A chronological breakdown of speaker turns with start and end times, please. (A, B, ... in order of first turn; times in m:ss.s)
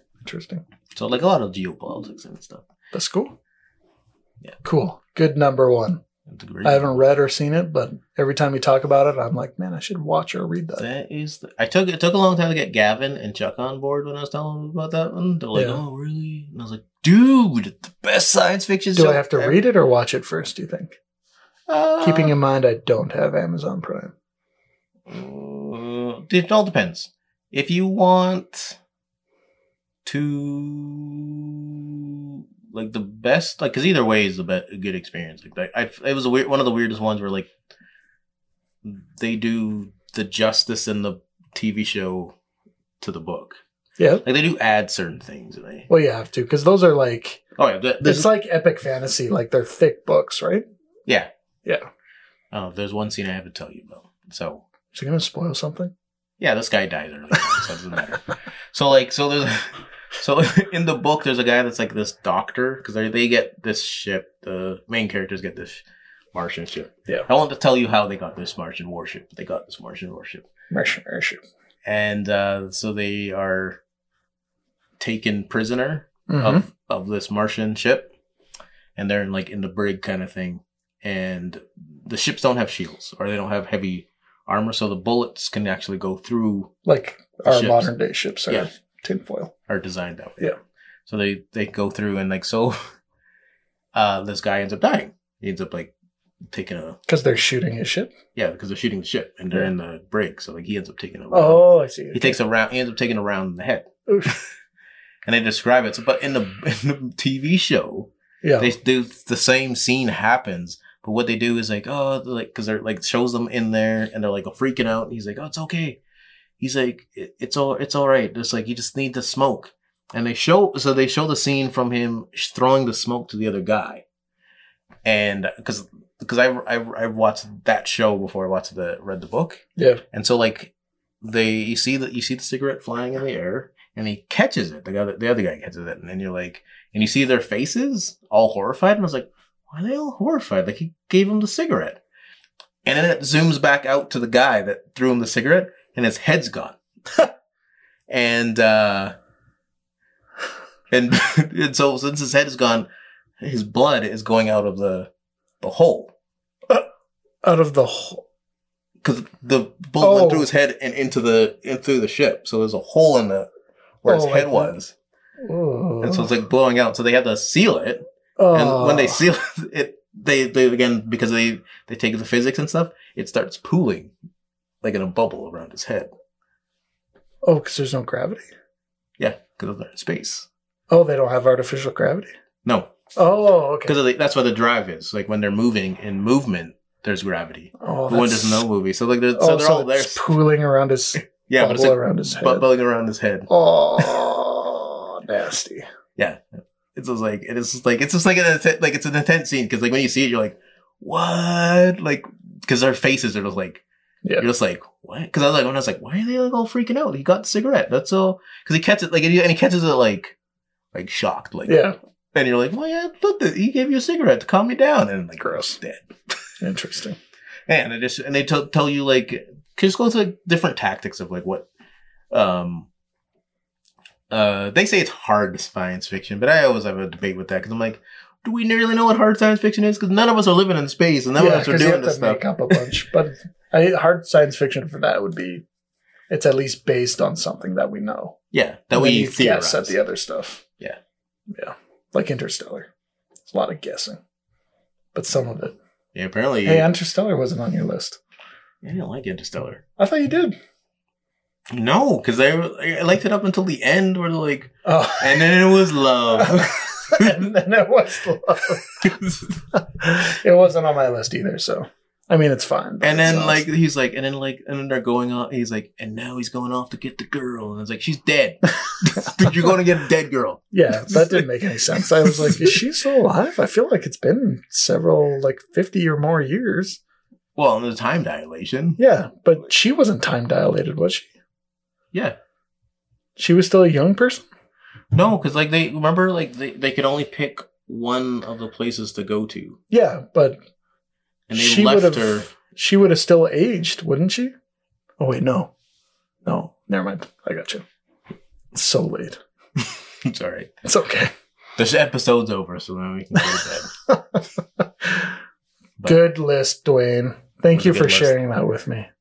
0:00.2-0:00.6 A
0:00.9-0:02.6 B
0:02.9-0:03.4 A
0:04.6-0:06.0 A
0:06.2-0:06.9 B
0:06.6-0:10.8 A
0:10.8-0:19.6 B
0:15.5-0:15.8 A
0:19.0-0:20.9 A
0:21.7-0:22.3 B
0:22.0-0:24.1 A
0:25.1-0:28.8 B
0:30.0-0:37.5 B
0:38.8-0:42.4 B
0:43.0-0:43.6 B
0:44.0-0:44.2 A
0:44.2-0:45.9 B
0:45.9-0:47.4 A
0:47.6-0:48.3 B
0:48.0-0:50.6 A
0:52.5-0:54.6 B
0:54.9-0:55.9 A
0:56.4-1:10.5 B
1:10.7-1:11.4 A
1:11.8-1:13.8 B
1:15.0-1:18.1 B
1:16.3-1:16.6 A
1:19.0-1:26.7 B
1:26.8-1:29.5 A
1:27.5-1:27.9 B
1:29.7-1:30.5 B
1:31.1-1:32.8 B
1:33.9-1:35.9 B
1:36.5-1:37.0 B
1:37.1-1:38.1 A
1:38.3-1:44.4 B
1:41.3-1:42.4 A
1:44.1-1:44.4 A
1:45.2-1:56.0 B
1:48.4-1:48.7 A
1:56.6-2:04.0 B
2:05.0-2:22.0 B
2:09.8-2:10.0 A
2:22.8-2:26.8 B
2:28.1-2:29.1 B
2:30.9-2:32.9 B
2:33.4-2:35.1 B
2:35.6-2:36.1 B
2:37.4-2:38.2 A
2:39.0-2:43.5 B
2:40.0-2:40.5 A
2:44.0-2:44.9 B
2:44.0-2:44.8 A
2:45.4-2:46.3 A
2:46.0-2:54.1 B
2:48.4-2:49.2 A
2:54.8-2:56.1 B
2:57.4-2:58.5 A
2:59.2-3:00.5 B
3:00.9-3:02.3 A
3:02.6-3:02.9 B
3:03.2-3:04.0 A
3:03.8-3:10.3 B
3:07.8-3:08.6 A
3:09.3-3:12.7 A
3:11.2-3:13.5 B
3:13.5-3:15.8 A
3:16.2-3:16.4 B
3:16.9-3:23.8 B
3:24.4-3:30.3 B
3:30.9-3:31.8 B
3:31.7-3:32.0 A
3:32.3-3:36.0 B
3:35.4-3:35.8 A
3:36.6-3:37.2 A
3:37.7-3:41.7 B
3:42.3-3:42.9 B
3:44.3-3:52.7 B
3:51.4-3:55.6 A
3:56.3-3:58.4 A
3:58.5-3:59.9 B
3:58.9-4:00.6 A
4:01.5-4:02.9 A
4:03.5-4:04.2 A
4:05.1-4:05.8 A
4:06.1-4:06.9 B
4:06.6-4:08.2 A
4:08.8-4:09.8 B
4:10.0-4:10.6 A
4:11.7-4:17.5 B
4:14.8-4:15.5 A
4:16.4-4:19.1 A
4:18.9-4:19.5 B
4:19.7-4:23.6 A
4:23.0-4:31.4 B
4:28.8-4:29.7 A
4:30.7-4:37.0 A
4:32.2-4:32.8 B
4:37.6-4:39.0 B
4:39.0-4:41.3 A
4:43.4-4:44.4 A
4:45.1-4:49.8 B
4:49.9-4:50.6 A
4:51.5-4:52.5 B
4:51.5-4:54.5 A
4:55.2-4:55.7 A
4:56.4-4:57.8 A
4:58.7-4:59.4 A
4:59.8-5:00.7 B
5:00.8-5:01.3 A
5:01.8-5:03.9 B
5:03.3-5:05.3 A
5:06.0-5:06.2 B
5:06.0-5:09.1 A
5:07.7-5:08.3 B